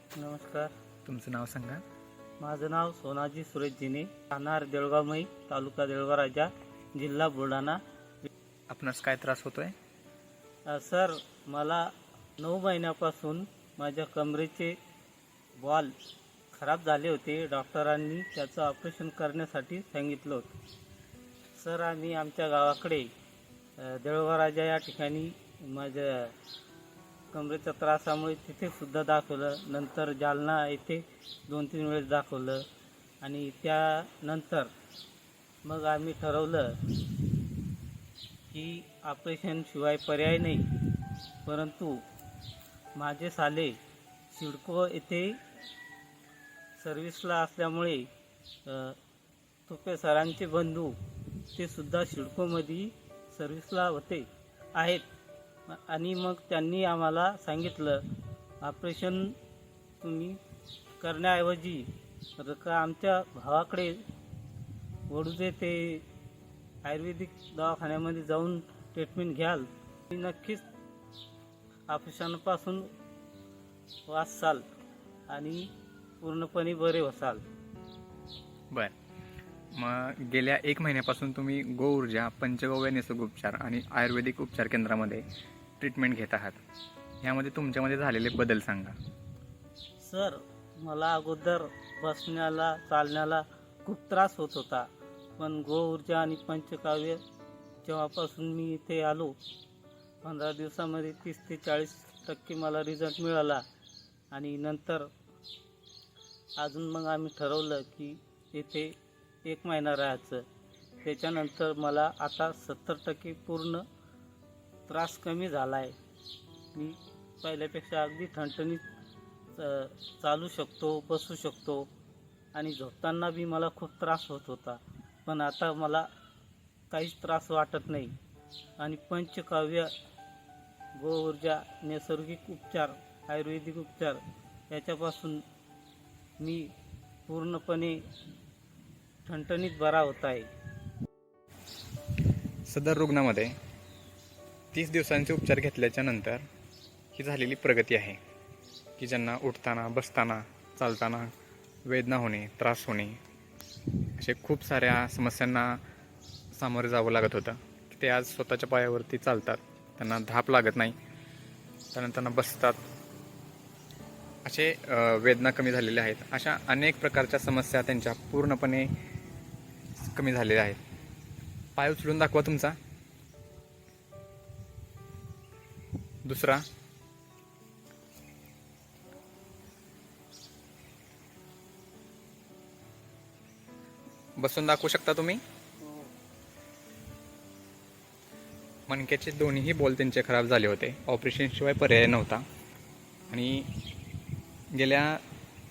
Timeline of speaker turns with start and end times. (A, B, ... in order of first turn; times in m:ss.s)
0:00.2-0:00.7 A
0:01.0-0:01.8 B
0:02.4-0:07.8 A
0:08.7-0:09.7 B
0:10.7-0:14.8 A
0:15.6-0:15.9 A
0:16.5-0:20.5 A
0:21.6-0:23.1 A
0:23.8-0:26.3 A
0:27.3-0:32.6 A
0:33.2-0:34.7 A
0:35.6-0:37.2 A
0:38.5-0:40.7 A
0:41.4-0:42.0 A
0:43.0-0:43.8 A
0:44.3-0:45.4 A
0:46.8-0:48.1 A
0:48.7-0:49.0 A
0:49.7-0:51.0 A
0:51.5-0:55.0 A
0:55.7-0:58.0 A
0:58.6-0:59.3 A
1:00.0-1:00.4 A
1:01.0-1:04.0 A
1:05.1-1:06.0 A
1:06.8-1:10.6 A
1:11.9-1:12.9 A
1:14.1-1:14.6 A
1:15.3-1:15.7 A
1:16.2-1:17.4 A
1:19.7-1:25.2 B
1:25.8-1:26.6 B
1:27.2-1:29.0 B
1:30.0-1:34.9 A
1:35.4-1:37.2 A
1:37.8-1:39.4 A
1:40.2-1:43.6 A
1:44.3-1:45.1 A
1:46.6-1:50.4 A
1:51.0-1:53.8 A
1:54.9-1:56.0 A
1:56.7-1:58.8 A
1:59.6-2:01.9 A
2:02.5-2:06.1 A
2:06.9-2:08.1 A
2:08.8-2:09.9 A
2:11.0-2:15.4 A
2:16.4-2:16.7 A
2:17.3-2:18.0 A
2:19.2-2:20.5 A
2:22.7-2:23.5 B
2:24.7-2:26.4 B
2:27.1-2:28.2 B
2:29.0-2:31.3 B
2:31.8-2:33.2 B
2:34.2-2:35.8 B
2:36.5-2:41.0 B
2:41.9-2:42.8 B
2:44.4-2:48.9 B
2:50.0-2:50.8 B
2:51.8-2:52.8 B
2:56.2-2:56.6 B
3:04.4-3:05.4 B
3:08.9-3:12.4 B
3:13.3-3:13.7 B
3:14.7-3:15.2 B